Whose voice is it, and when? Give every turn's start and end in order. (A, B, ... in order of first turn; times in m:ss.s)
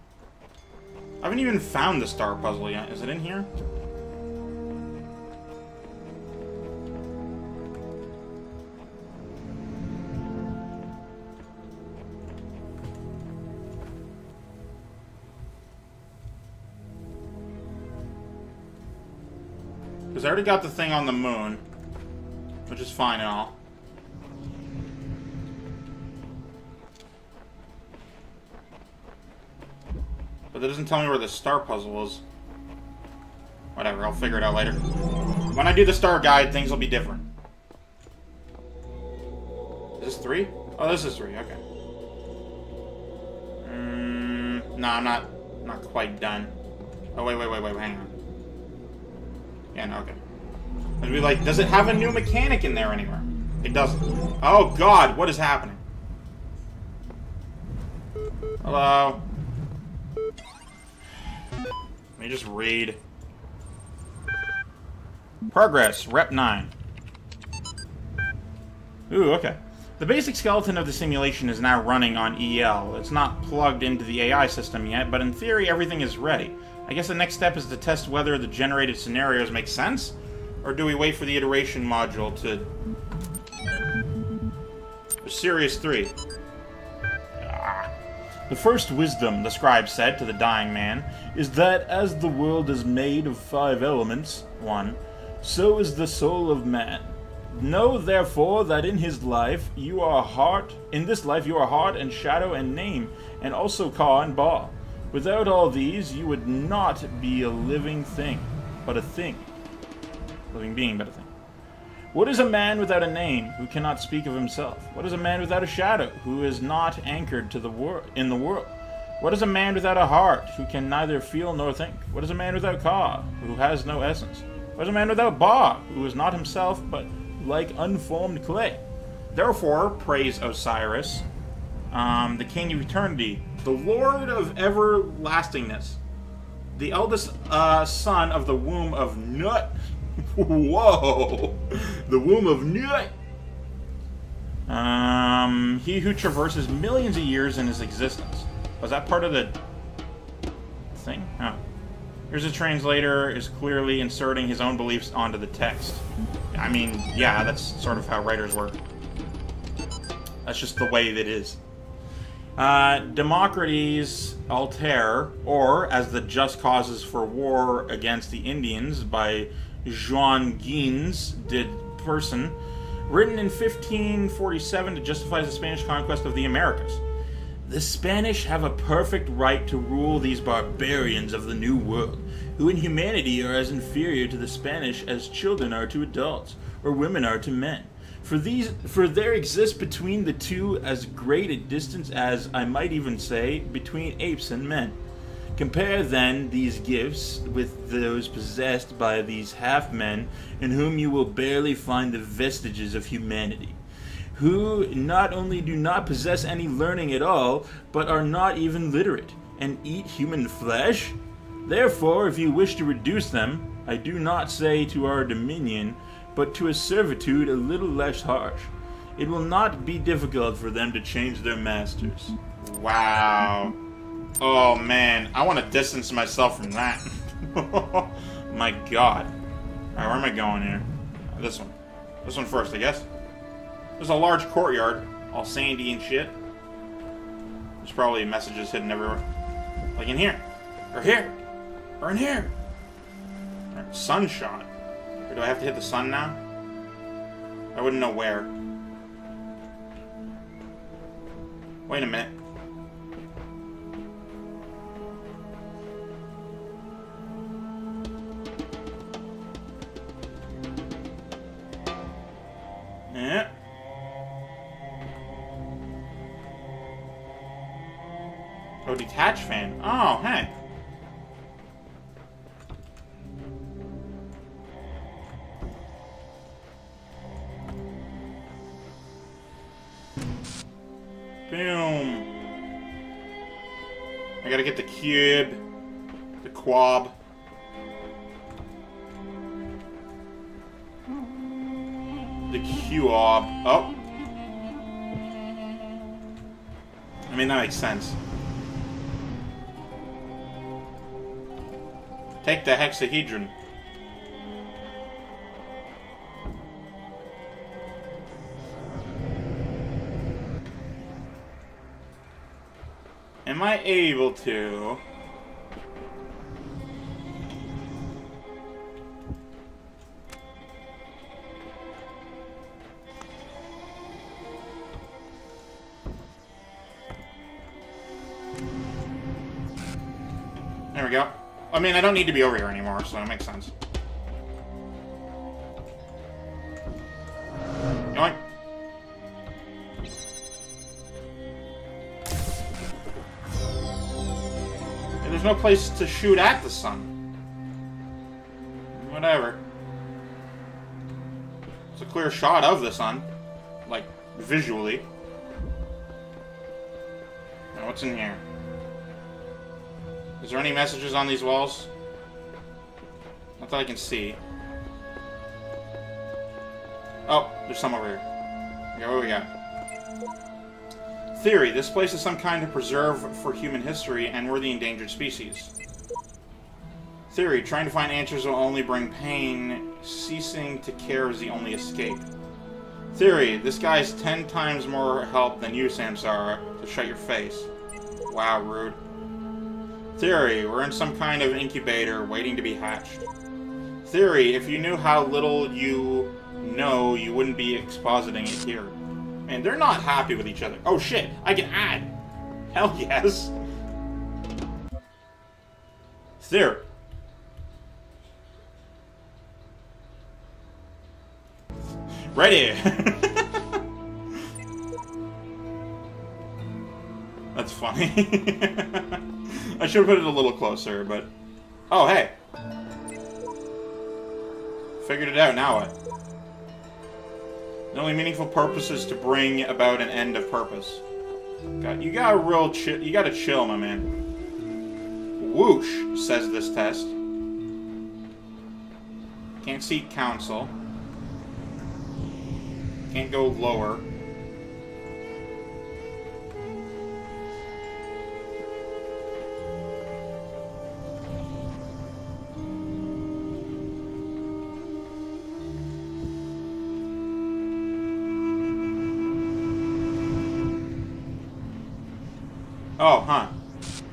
0:01.2-0:03.5 A
0:20.1-0:21.6 A
0:22.7-0:23.5 A
0:30.5-0:32.2 A
0:33.7-0:34.8 A
0:35.5-0:37.2 A
0:40.0-0:41.6 A
0:43.6-0:46.5 A
0:47.1-0:48.1 A
0:49.7-0:50.2 A
0:51.0-0:55.8 A
0:58.6-0:59.2 A
1:02.2-1:03.0 A
1:05.5-1:06.7 A
1:09.1-1:22.7 A
1:25.2-1:26.1 A
1:27.4-1:27.9 A
1:28.5-1:49.4 A
1:50.5-1:51.3 A
1:52.1-2:11.2 A
2:11.9-2:16.0 A
2:16.7-2:23.1 A
2:24.7-2:29.6 A
2:30.9-2:31.6 A
2:32.3-2:38.8 A
2:40.4-2:41.6 A
2:42.6-2:52.6 A
2:53.1-2:57.0 A
2:57.6-3:15.0 A
3:15.5-3:23.8 A
3:24.3-3:43.7 A
3:44.4-3:49.3 A
3:50.0-3:53.1 A
3:54.0-3:56.3 A
3:57.8-3:59.2 A
4:00.0-4:01.3 A
4:02.0-4:02.5 A
4:03.7-4:04.7 A
4:05.3-4:06.4 A
4:07.7-4:08.5 A
4:11.9-4:12.3 A
4:23.1-4:23.5 A
4:28.8-4:30.5 A
4:41.5-4:42.3 A
4:44.4-4:45.6 A
4:46.4-4:47.1 A
4:52.5-4:53.9 A
4:57.3-4:58.2 A
5:02.4-5:03.5 A
5:13.4-5:15.0 A
5:30.9-5:33.7 A
5:38.1-5:38.4 A
5:45.2-5:47.1 A
5:48.9-5:49.6 A
5:51.9-5:53.3 A
5:53.8-5:55.0 A
5:57.7-5:58.4 A
6:00.4-6:01.9 A
6:03.6-6:04.4 A
6:07.3-6:08.2 A
6:08.9-6:09.5 A
6:11.3-6:15.7 A
6:17.3-6:22.3 A
6:23.1-6:27.7 A
6:28.3-6:29.0 A
6:30.2-6:33.2 A
6:34.0-6:39.0 A
6:39.5-6:42.1 A
6:42.7-6:43.5 A
6:46.4-6:46.8 A
6:52.2-6:53.8 A
6:57.5-7:01.3 A
7:01.9-7:02.3 A
7:05.0-7:05.9 A
7:07.9-7:11.0 A
7:11.8-7:14.1 A
7:15.4-7:17.1 A
7:19.6-7:20.7 A
7:23.1-7:24.0 A
7:43.0-7:43.5 A